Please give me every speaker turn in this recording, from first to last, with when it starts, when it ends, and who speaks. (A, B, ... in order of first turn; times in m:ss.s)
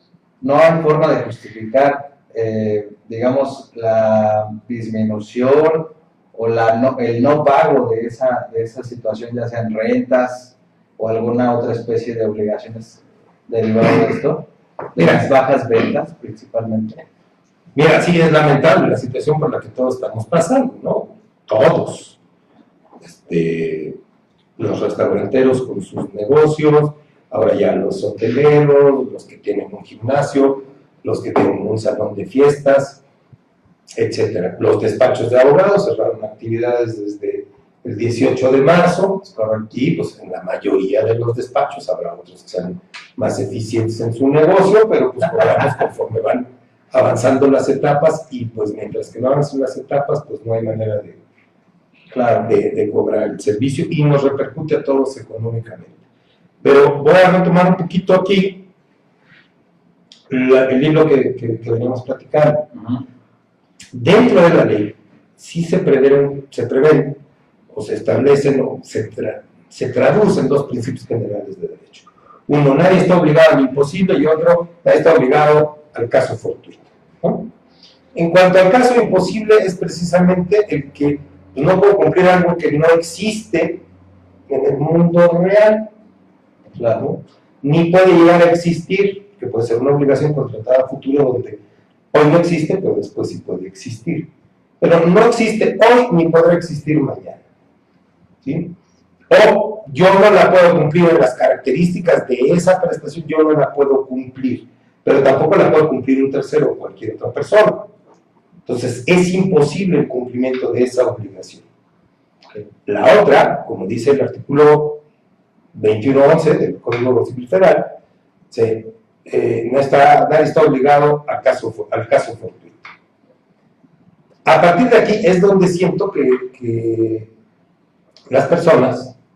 0:00.4-0:17.0 A
0:15.0-0:15.2 B
0:17.7-0:22.2 B
0:23.0-0:24.0 B
0:24.6-0:33.0 B
0:33.9-0:51.2 B
0:39.2-0:39.7 A
0:45.4-0:45.8 A
0:52.1-0:52.5 A
0:52.4-0:56.0 B
0:56.6-0:58.7 B
1:00.3-1:02.7 B
1:02.7-1:03.0 A
1:03.9-1:17.5 B
1:18.1-1:23.8 B
1:24.5-1:25.9 B
1:26.8-1:27.0 A
1:27.0-1:31.6 B
1:32.1-1:37.4 B
1:38.4-1:38.8 B
1:39.3-1:47.9 B
1:48.6-1:51.6 B
1:52.8-1:55.0 B
1:55.7-1:58.0 B
1:58.5-2:02.9 B
2:04.4-2:07.3 B
2:08.3-2:09.2 B